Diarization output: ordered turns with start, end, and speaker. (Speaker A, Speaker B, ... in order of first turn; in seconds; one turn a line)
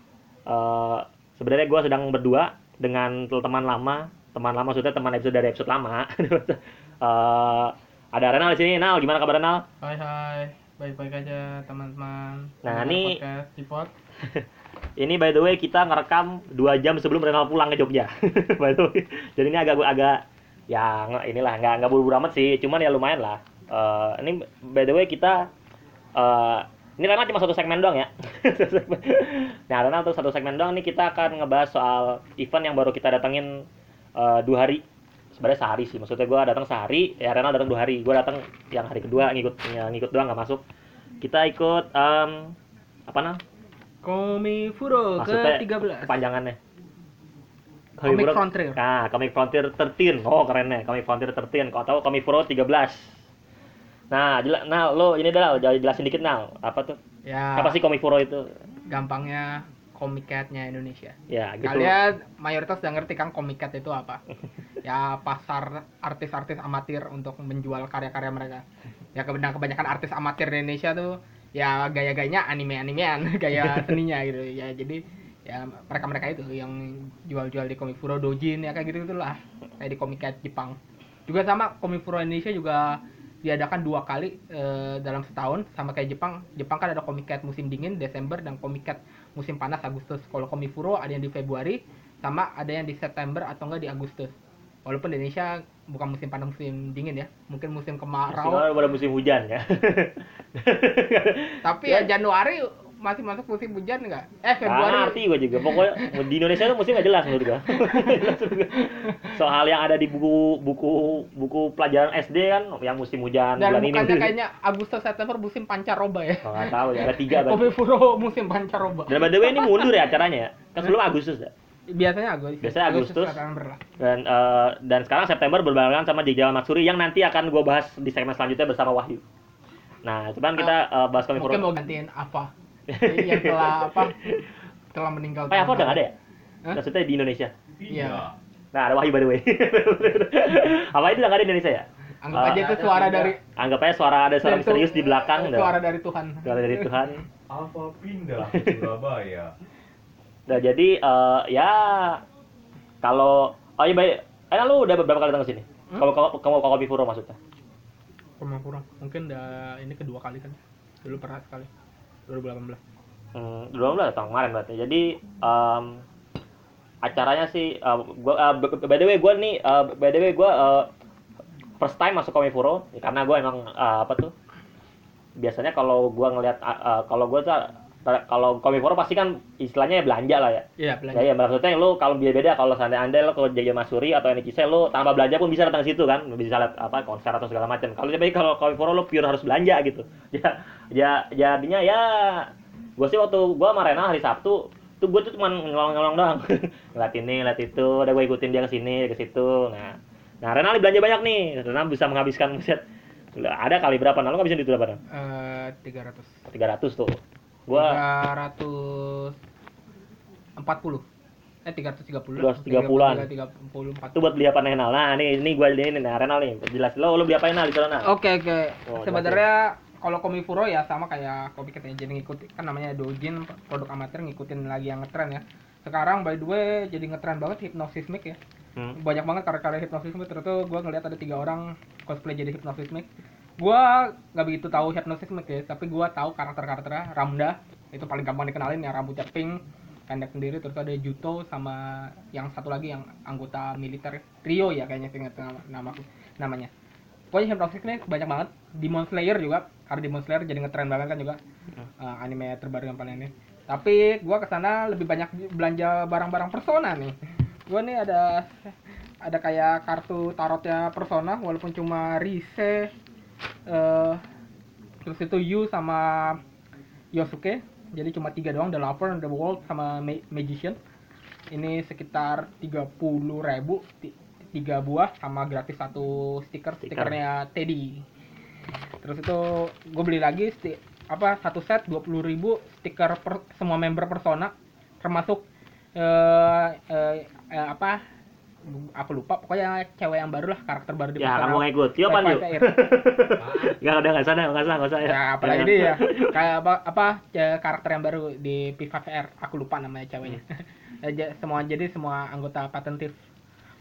Speaker A: 0.5-9.7
Speaker B: 9.8-13.9
Speaker A: 12.6-13.2
Speaker A: 15.0-25.5
Speaker A: 26.2-33.6
Speaker A: 34.2-34.8
Speaker A: 35.3-40.6
Speaker A: 41.2-42.6
Speaker A: 43.1-43.4
Speaker B: 44.0-46.2
Speaker A: 45.2-46.6
Speaker A: 48.0-53.2
Speaker B: 48.0-48.8
Speaker A: 54.1-57.0
Speaker B: 57.3-57.8
Speaker A: 57.6-58.5
Speaker B: 58.9-64.2
Speaker A: 61.3-62.0
Speaker B: 64.8-68.6
Speaker B: 69.2-94.3
Speaker B: 94.8-98.7
Speaker A: 98.3-102.1
Speaker B: 101.6-106.1
Speaker A: 104.7-114.3
Speaker B: 107.7-109.3
Speaker B: 113.6-120.0
Speaker A: 116.4-117.7
Speaker A: 119.1-121.5
Speaker B: 121.9-123.8
Speaker A: 122.6-123.4
Speaker A: 124.0-129.2
Speaker A: 130.0-131.7
Speaker B: 131.3-132.5
Speaker A: 132.9-134.4
Speaker B: 133.1-134.2
Speaker B: 134.9-136.0
Speaker A: 135.5-136.1
Speaker A: 136.8-137.5
Speaker C: 137.8-138.3
Speaker B: 137.9-138.3
Speaker A: 138.7-145.8
Speaker B: 142.2-143.4
Speaker B: 144.4-146.9
Speaker A: 146.4-147.2
Speaker C: 147.5-149.5
Speaker A: 148.4-148.9
Speaker A: 150.5-152.2
Speaker A: 153.0-157.4
Speaker B: 158.4-161.7
Speaker B: 162.3-162.8
Speaker A: 163.3-166.0
Speaker A: 167.0-170.9
Speaker A: 171.8-174.3
Speaker A: 175.4-202.8
Speaker B: 180.8-181.3
Speaker A: 203.3-205.0
Speaker B: 205.1-206.3
Speaker A: 206.5-208.0
Speaker B: 207.7-209.4
Speaker B: 210.6-211.0
Speaker B: 211.7-214.3
Speaker A: 212.4-213.2
Speaker A: 214.1-218.1
Speaker B: 218.1-228.4
Speaker A: 218.9-219.4
Speaker B: 229.0-233.1
Speaker B: 233.6-246.7
Speaker B: 247.3-251.4
Speaker B: 252.0-257.1
Speaker B: 257.7-258.7
Speaker B: 259.2-262.9
Speaker B: 263.7-264.2
Speaker B: 265.0-266.4
Speaker B: 267.1-270.8
Speaker B: 271.5-278.0
Speaker A: 276.8-277.2
Speaker B: 279.0-285.4
Speaker B: 286.0-288.0
Speaker B: 288.7-292.8
Speaker A: 291.2-296.4
Speaker B: 295.0-303.1